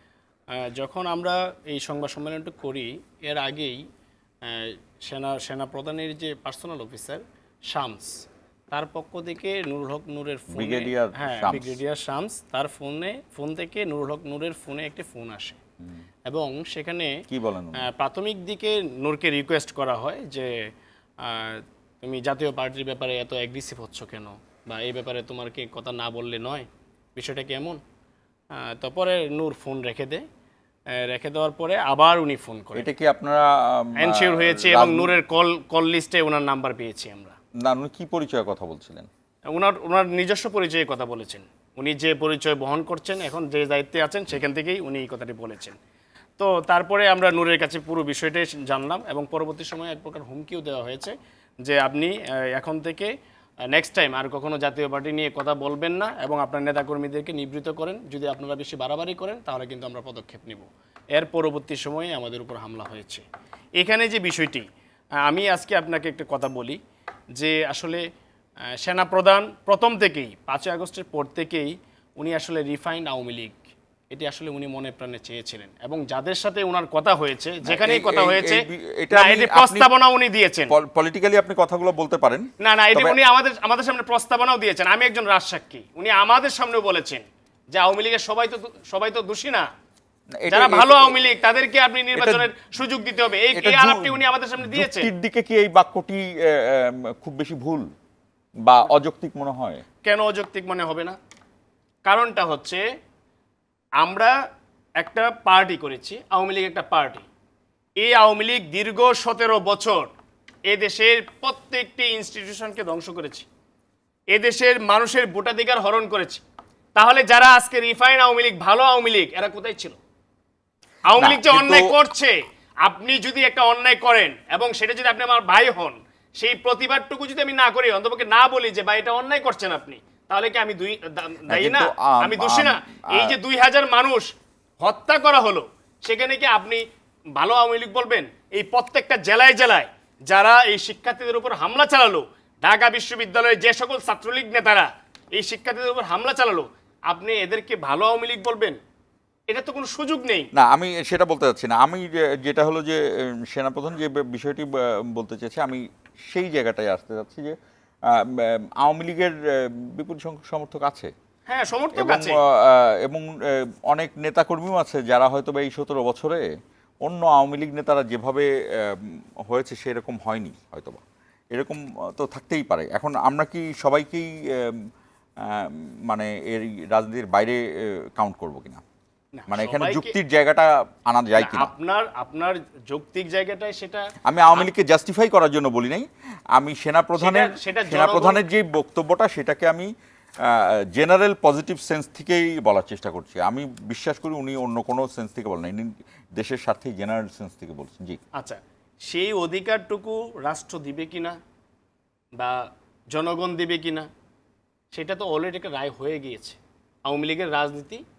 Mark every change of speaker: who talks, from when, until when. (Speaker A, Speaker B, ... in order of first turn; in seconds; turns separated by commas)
Speaker A: 0.5-3.8, Speaker A: 4.5-15.6, Speaker B: 10.5-11.8, Speaker A: 16.3-17.2, Speaker B: 17.3-17.9, Speaker A: 17.8-20.6, Speaker A: 21.2-27.8, Speaker A: 28.5-30.2, Speaker A: 30.9-32.9, Speaker B: 32.8-35.2, Speaker A: 34.0-37.4, Speaker B: 37.6-39.1, Speaker A: 39.5-45.8, Speaker A: 46.4-53.1, Speaker A: 53.7-63.2, Speaker A: 63.8-64.7, Speaker A: 65.2-66.8, Speaker A: 67.4-68.0, Speaker A: 68.8-80.7, Speaker B: 77.6-79.9, Speaker B: 80.7-83.2, Speaker A: 82.6-89.7, Speaker B: 90.4-91.2, Speaker A: 90.5-95.1, Speaker B: 92.1-92.5, Speaker B: 93.5-97.9, Speaker B: 98.7-99.8, Speaker A: 100.0-101.2, Speaker A: 102.0-102.8, Speaker A: 104.0-104.3, Speaker A: 105.0-107.3, Speaker A: 108.0-110.1, Speaker A: 110.7-113.5, Speaker A: 114.3-116.4, Speaker A: 117.0-120.0, Speaker A: 121.1-136.8, Speaker B: 121.2-122.0, Speaker B: 131.5-133.3, Speaker A: 137.4-148.8, Speaker A: 149.5-150.5, Speaker B: 150.5-157.6, Speaker B: 158.1-161.1, Speaker A: 161.5-162.4, Speaker B: 161.9-166.5, Speaker B: 167.1-171.0, Speaker B: 171.5-174.8, Speaker B: 175.4-178.8, Speaker A: 179.4-180.1, Speaker B: 179.5-181.7, Speaker A: 181.4-184.1, Speaker B: 184.3-189.9, Speaker A: 187.2-188.4, Speaker B: 190.4-198.2, Speaker A: 198.3-201.4, Speaker A: 202.4-204.1, Speaker A: 204.9-208.0